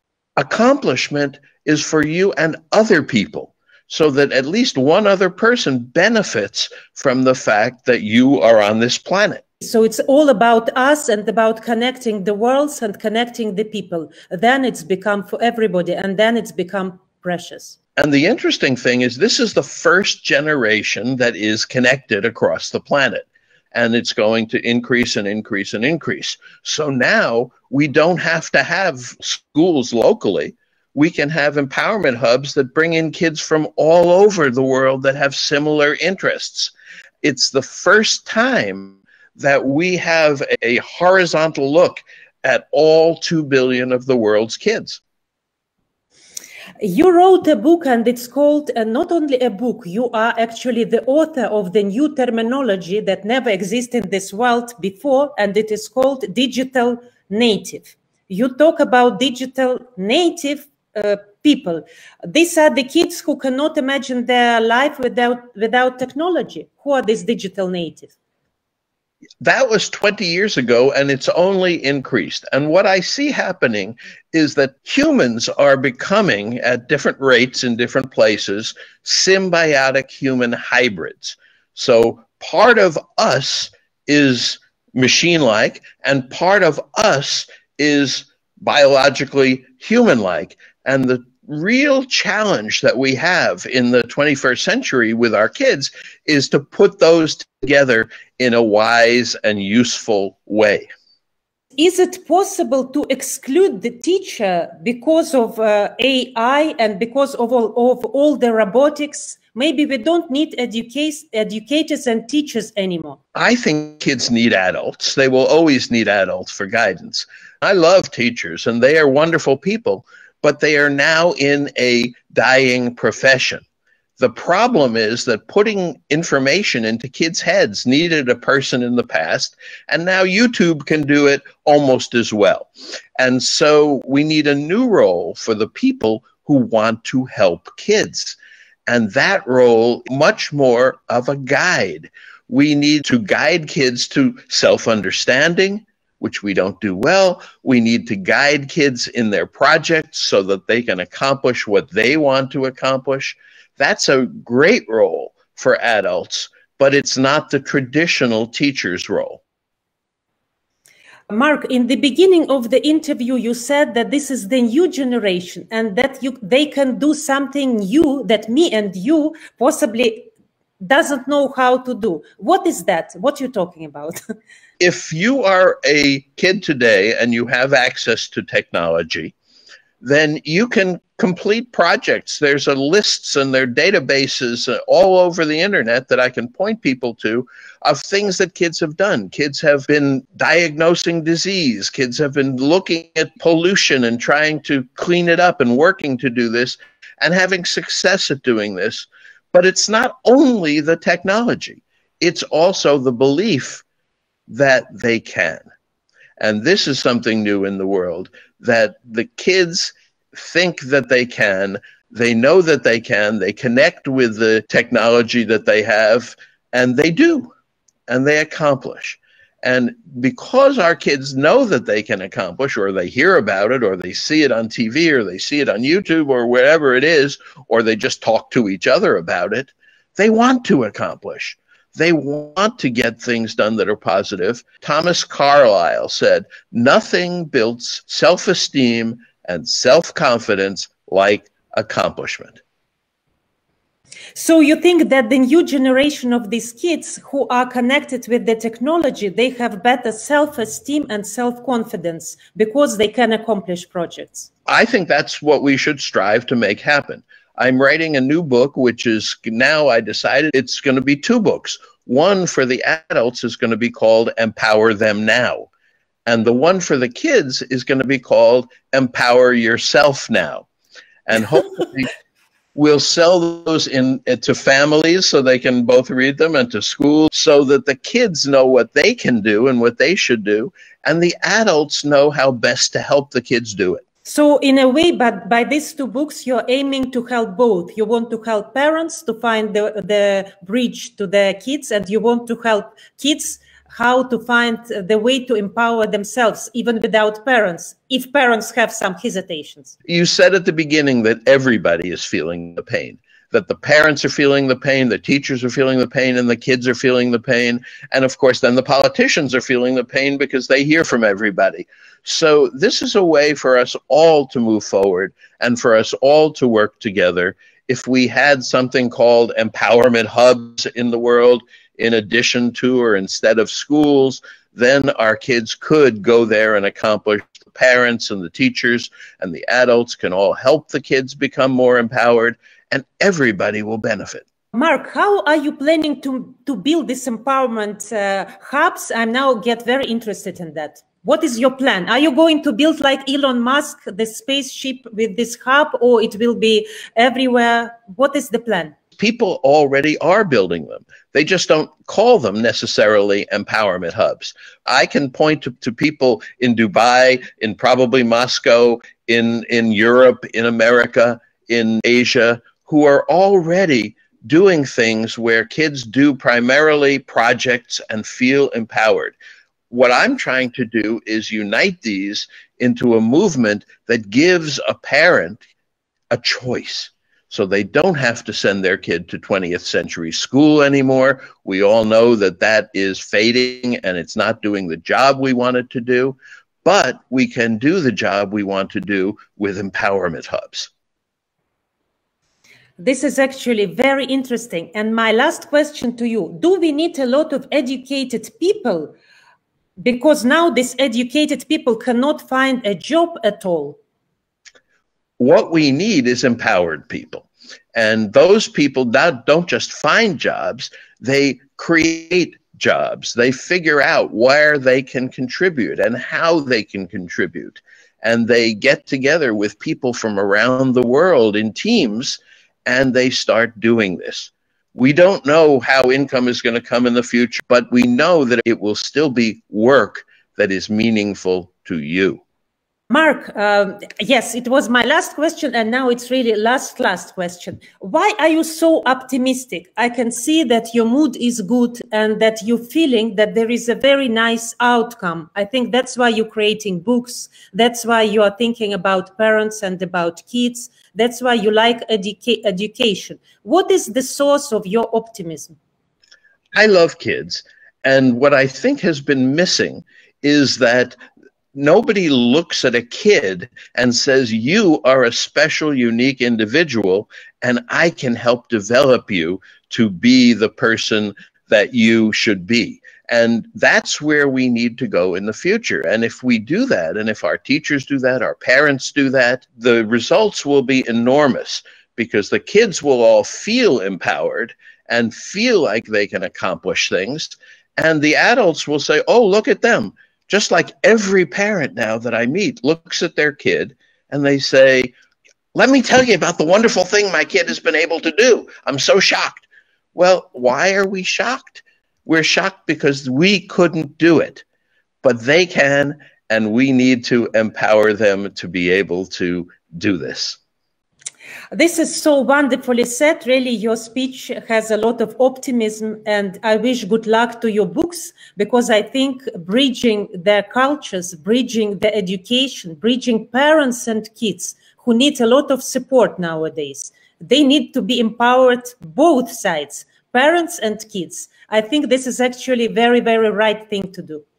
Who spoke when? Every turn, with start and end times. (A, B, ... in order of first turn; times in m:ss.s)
0:00.4-0:09.4 A
0:09.6-0:17.8 B
0:18.0-0:45.0 A
0:46.8-1:08.1 B
1:09.4-1:40.9 A
1:41.8-1:53.2 B
1:53.3-2:03.6 A
2:04.2-2:39.4 A
2:41.3-2:54.2 B
2:54.8-2:59.3 A
3:00.0-3:23.8 A
3:24.5-3:25.7 A
3:26.4-3:37.5 A
3:38.1-4:02.6 A
4:04.3-4:14.5 B
4:14.7-4:25.7 A
4:26.2-4:30.6 A
4:31.3-4:32.1 A
4:32.7-4:44.0 A
4:44.2-5:00.0 B
5:00.1-5:34.4 A
5:34.7-5:48.9 B
5:49.2-6:09.3 A
6:09.9-6:15.6 A
6:16.3-6:30.9 A
6:33.0-6:39.1 B
6:40.0-6:44.0 B
6:45.4-7:12.4 A
7:13.1-7:35.8 B
7:36.7-7:41.2 A
7:41.7-8:15.1 A
8:15.7-8:24.6 A
8:25.2-8:30.6 A
8:31.7-8:54.4 B